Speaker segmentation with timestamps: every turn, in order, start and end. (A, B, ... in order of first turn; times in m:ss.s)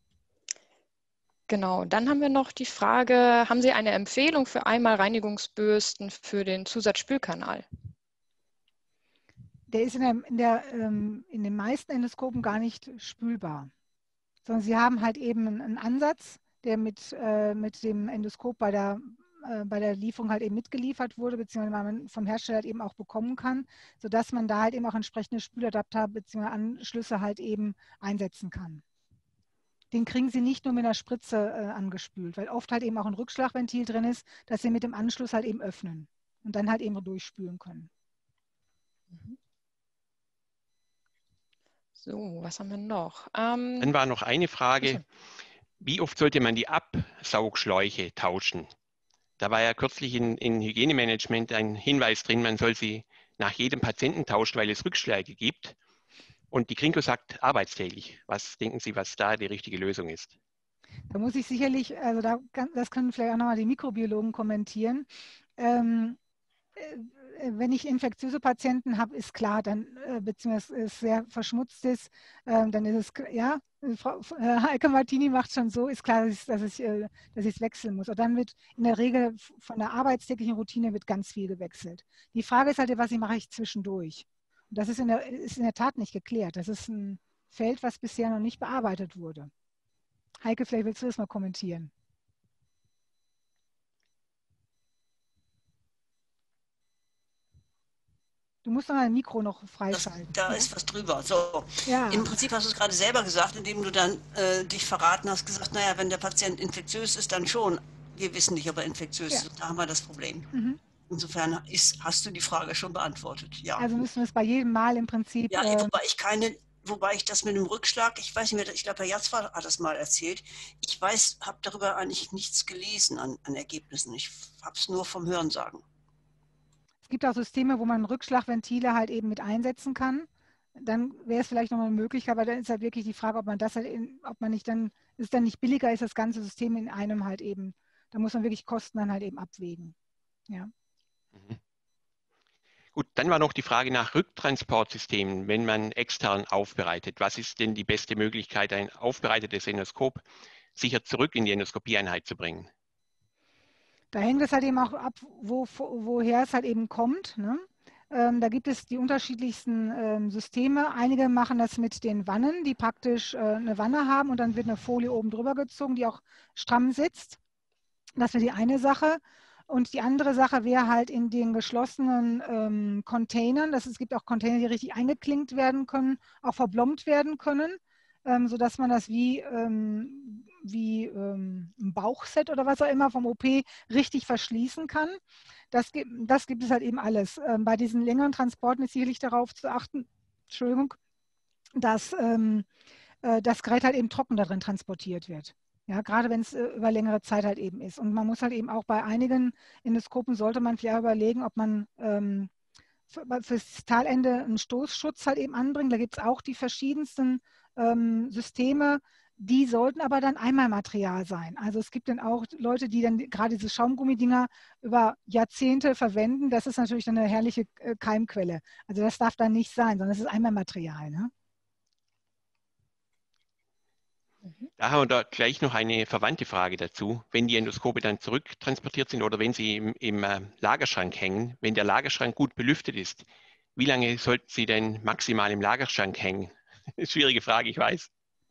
0:01.5-0:07.7 A
0:09.7-0:13.7 B
0:14.4-0:28.8 B
0:29.9-0:37.9 B
0:42.0-0:43.9 A
0:43.8-0:45.0 C
0:45.8-0:48.7 C
0:49.4-0:55.8 C
0:56.5-1:00.3 C
1:01.1-1:05.1 B
1:05.6-1:06.2 B
1:06.8-1:29.5 B
1:30.4-1:31.9 B
1:38.6-1:40.7 B
1:39.9-1:50.5 D
1:41.9-1:42.3 B
1:50.5-1:50.8 B
1:51.1-1:53.9 D
1:53.8-1:56.0 B
1:55.5-2:05.8 D
2:07.1-2:19.9 B
2:22.9-2:30.2 C
2:30.8-2:32.7 C
2:34.1-2:47.4 B
2:48.2-3:05.2 B
3:05.7-3:11.0 B
3:11.8-3:12.7 B
3:13.2-3:22.5 B
3:23.1-3:41.3 B
3:44.8-3:58.1 C